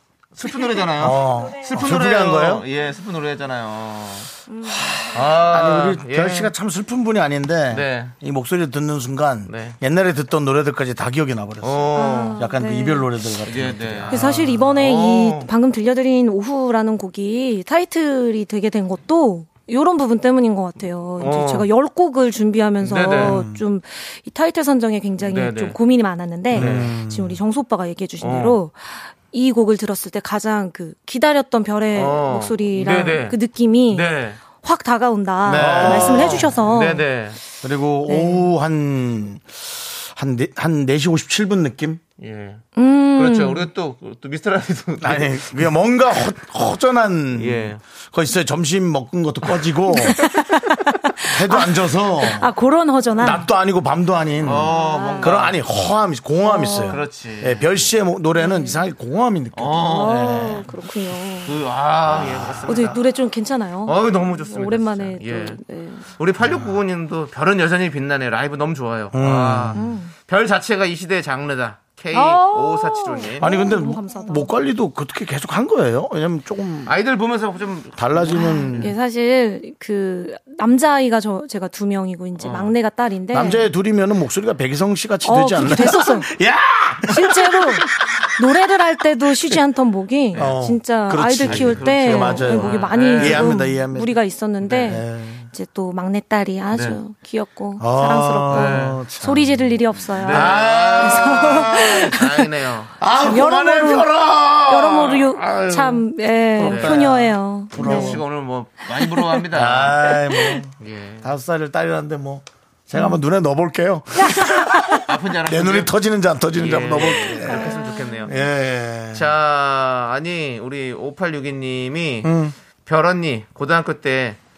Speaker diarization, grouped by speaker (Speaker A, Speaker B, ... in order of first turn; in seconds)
Speaker A: 0.3-4.3, 5.0-6.5, 7.7-8.1, 9.5-9.8, 11.6-12.4, 13.4-15.5, 21.2-21.7, 22.8-23.4, 25.2-25.8, 26.6-26.9, 28.2-28.6, 31.9-33.4, 33.9-34.4, 35.5-37.4, 42.2-45.5, 47.4-47.8, 54.4-55.5, 56.9-57.9, 59.5-60.1, 61.4-63.0, 63.9-73.5, 76.8-78.9, 82.4-82.7, 91.4-93.6, 94.6-94.9, 96.7-97.0, 98.5-99.0, 100.2-102.9, 106.6-107.1, 107.7-110.1, 110.8-111.3, 115.0-115.9, 116.5-118.3, 119.1-122.3, 122.8-124.4
Speaker B: 1.0-2.6, 5.0-14.6, 23.2-23.6, 26.5-27.4, 35.4-36.6, 37.6-42.0, 45.0-50.2, 51.3-52.5, 53.2-60.6, 62.1-62.6, 66.4-66.7, 69.1-69.8, 73.4-76.9, 78.0-78.9, 83.3-88.0, 90.3-94.2, 94.7-95.5, 97.8-99.6, 100.2-102.2, 103.0-106.0, 106.6-108.2, 109.5-119.3, 122.2-122.5
Speaker C: 4.5-5.0, 11.9-13.1, 14.1-37.0, 38.1-38.5, 42.7-43.7, 50.0-53.5, 54.6-55.4, 56.4-57.0, 58.4-58.8, 59.8-61.6, 62.7-66.1, 69.7-70.1, 72.1-74.5, 78.3-83.7, 85.2-86.3, 87.0-102.3, 103.2-104.1, 104.7-108.2, 114.2-115.0, 117.4-118.3